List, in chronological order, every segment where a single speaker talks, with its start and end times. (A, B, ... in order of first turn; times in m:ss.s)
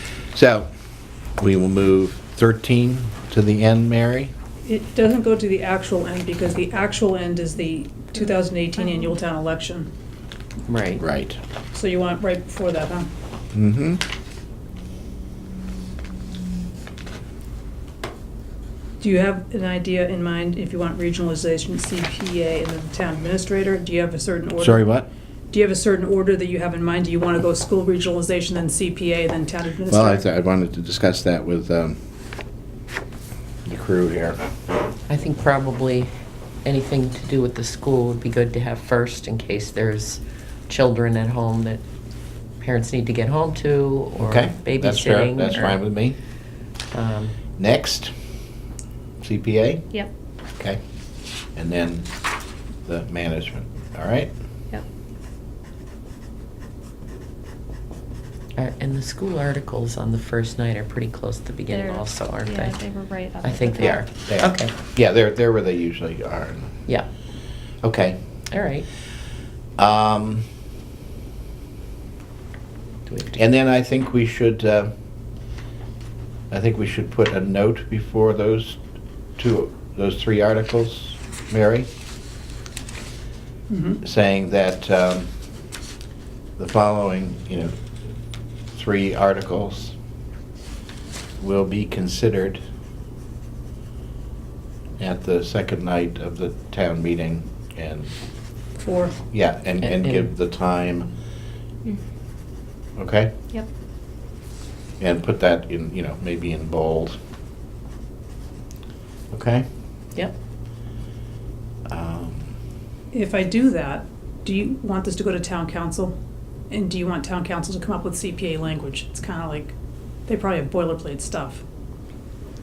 0:00.3-0:00.7 A
0:01.4-0:04.3 A
0:04.6-0:09.9 B
0:10.7-0:11.0 C
0:11.0-0:11.4 A
0:11.7-0:13.1 B
0:13.5-0:14.0 A
0:19.0-0:24.9 B
0:24.6-0:25.1 A
0:25.5-0:30.2 B
0:29.9-0:32.0 A
0:33.6-0:34.4 A
0:35.1-0:36.1 C
0:36.6-0:41.8 C
0:42.6-0:45.8 C
0:44.2-0:46.2 A
0:46.9-0:47.4 C
0:47.6-0:48.1 A
0:49.2-0:49.9 A
0:51.5-0:52.1 A
0:52.8-0:54.3 A
0:58.6-1:02.8 C
1:01.7-1:04.0 D
1:03.4-1:04.7 C
1:04.3-1:06.8 A
1:07.8-1:08.2 A
1:08.5-1:08.8 C
1:09.8-1:10.5 A
1:13.1-1:13.4 C
1:13.4-1:14.9 A
1:16.5-1:18.8 A
1:19.4-1:21.9 A
1:23.7-1:24.0 B
1:24.0-1:25.3 A
1:26.6-1:27.7 A
1:28.7-1:30.0 A
1:31.4-1:32.6 A
1:35.0-1:38.1 A
1:38.8-1:39.2 B
1:39.3-1:41.1 A
1:39.8-1:40.3 C
1:43.0-1:43.3 A
1:45.0-1:47.2 A
1:49.3-1:49.6 A
1:51.9-1:52.5 A
1:53.1-1:56.1 B
1:56.7-1:59.7 B
2:00.3-2:01.6 B